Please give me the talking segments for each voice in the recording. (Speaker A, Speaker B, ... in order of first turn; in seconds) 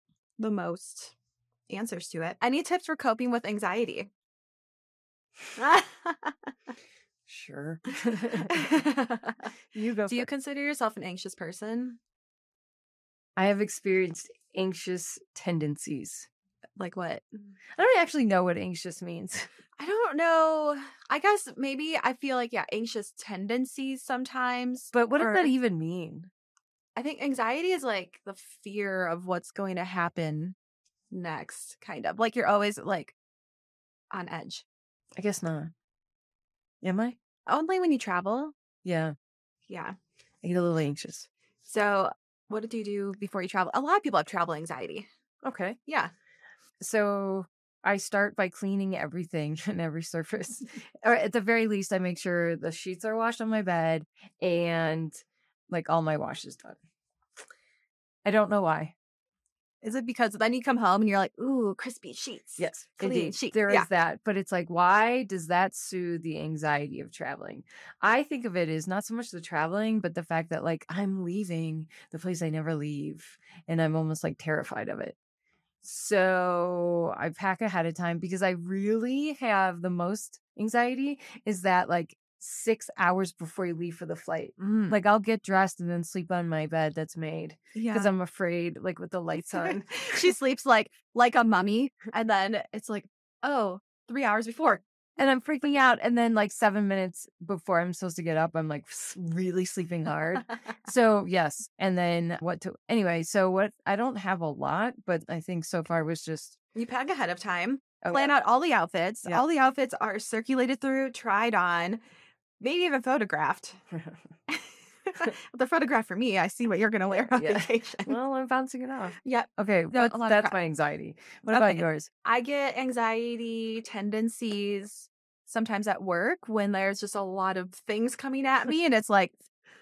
Speaker A: 0.4-1.1, 1.7-4.1, 5.6-6.5, 8.5-9.5, 10.1-12.0, 16.8-17.3, 19.8-25.5, 26.9-30.6, 31.1-33.1, 34.1-34.6, 37.5-38.5, 39.7-40.0, 41.6-45.1, 45.9-46.1, 59.8-63.9, 84.6-85.0, 87.8-88.1, 89.5-94.8, 106.8-112.0, 112.6-113.8, 114.5-118.2, 119.2-120.6, 121.5-129.4
Speaker B: 7.3-8.8, 9.7-10.3, 13.4-16.3, 17.8-19.5, 24.9-26.3, 35.2-35.7, 36.8-37.2, 38.8-39.1, 40.4-41.3, 45.4-45.8, 46.8-56.8, 58.2-58.9, 62.6-75.2, 75.8-90.3, 95.2-106.6, 108.0-108.3, 113.9-114.2, 117.3-122.1